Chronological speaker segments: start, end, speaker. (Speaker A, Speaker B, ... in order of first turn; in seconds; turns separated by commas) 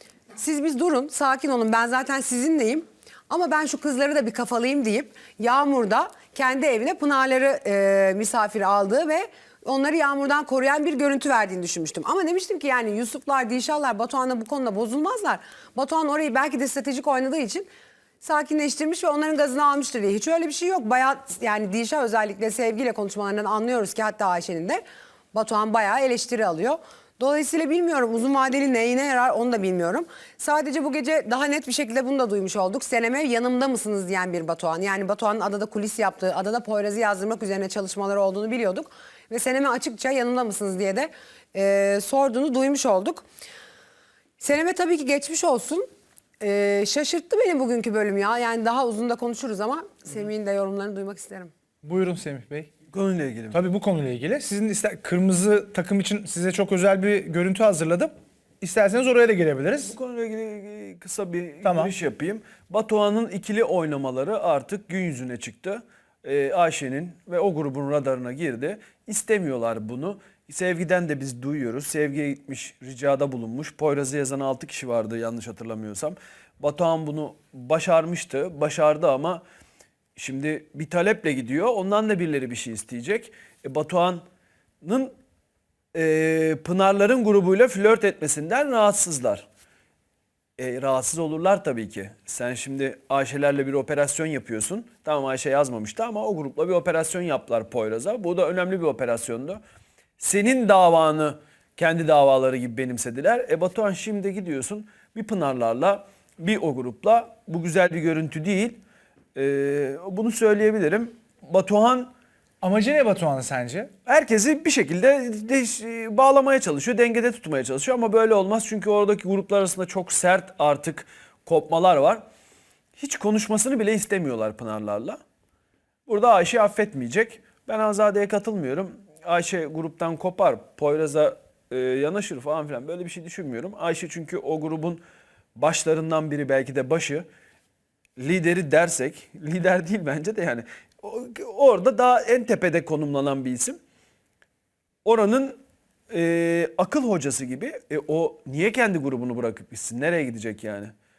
Speaker A: 0.4-17.7, Speaker A: 18.2-24.8, Speaker A: 25.3-43.2, Speaker A: 44.4-45.9, Speaker A: 46.4-51.5, Speaker B: 51.8-52.7, Speaker C: 52.9-53.6, Speaker B: 53.5-60.0, Speaker C: 59.9-79.4, Speaker B: 61.6-61.9, Speaker C: 80.2-84.2, Speaker C: 84.8-85.2, Speaker C: 86.0-89.5, Speaker C: 90.6-99.6, Speaker C: 100.2-108.8, Speaker C: 109.4-112.1, Speaker B: 112.6-113.9, Speaker C: 114.1-122.2, Speaker C: 123.0-125.2, Speaker C: 126.1-135.0, Speaker C: 135.6-137.3, Speaker C: 138.2-143.8, Speaker C: 145.1-150.9